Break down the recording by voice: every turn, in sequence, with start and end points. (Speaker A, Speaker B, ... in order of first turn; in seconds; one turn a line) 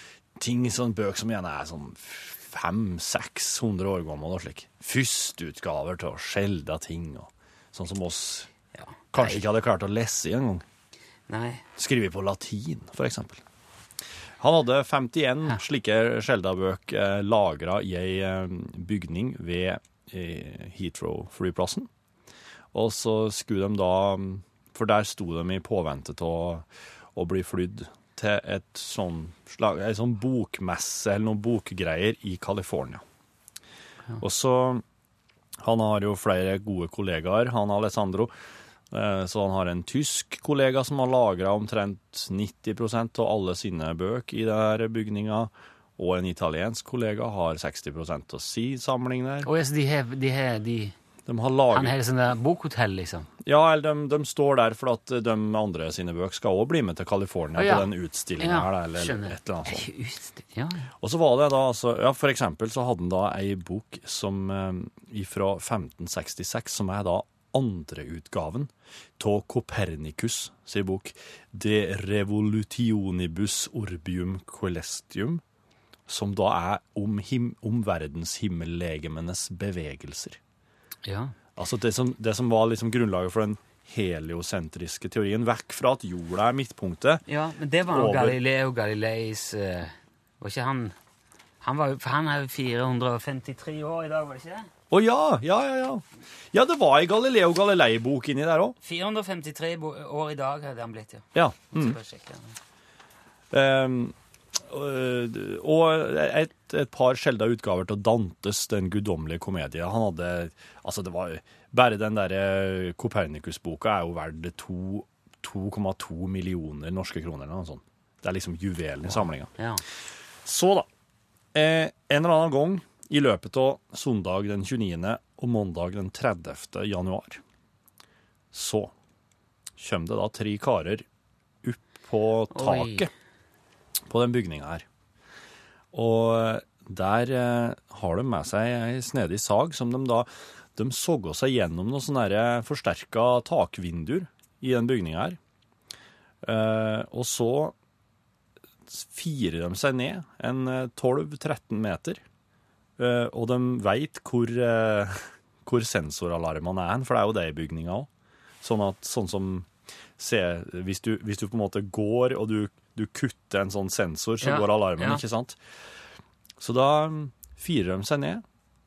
Speaker A: 0.4-8.5
Speaker B: 8.7-9.4
Speaker A: 9.1-10.6
Speaker B: 11.3-11.6
Speaker A: 11.8-13.4
Speaker A: 14.4-21.9
Speaker A: 22.7-33.0
Speaker A: 34.2-34.8
Speaker A: 35.6-38.3
Speaker A: 38.9-49.5
Speaker B: 49.4-50.9
Speaker A: 51.2-51.9
Speaker B: 51.7-53.3
Speaker A: 53.4-59.9
Speaker B: 57.5-60.9
Speaker A: 61.0-75.4
Speaker A: 76.1-80.4
Speaker B: 81.0-81.3
Speaker A: 81.6-87.2
Speaker B: 87.3-90.9
Speaker A: 87.8-88.4
Speaker B: 91.6-94.7
Speaker A: 94.9-98.8
Speaker B: 98.8-102.6
Speaker A: 101.3-102.0
Speaker A: 103.5-119.5
Speaker B: 119.1-119.8
Speaker A: 120.4-120.9
Speaker A: 121.5-127.4
Speaker A: 128.5-128.9
Speaker A: 129.8-131.1
Speaker A: 131.6-133.1
Speaker B: 132.5-133.1
Speaker A: 134.1-134.8
Speaker A: 135.9-145.4
Speaker A: 146.4-147.7
Speaker A: 148.9-152.2
Speaker A: 153.0-158.1
Speaker A: 158.6-159.7
Speaker A: 160.2-165.6
Speaker B: 164.4-165.2
Speaker A: 166.6-168.4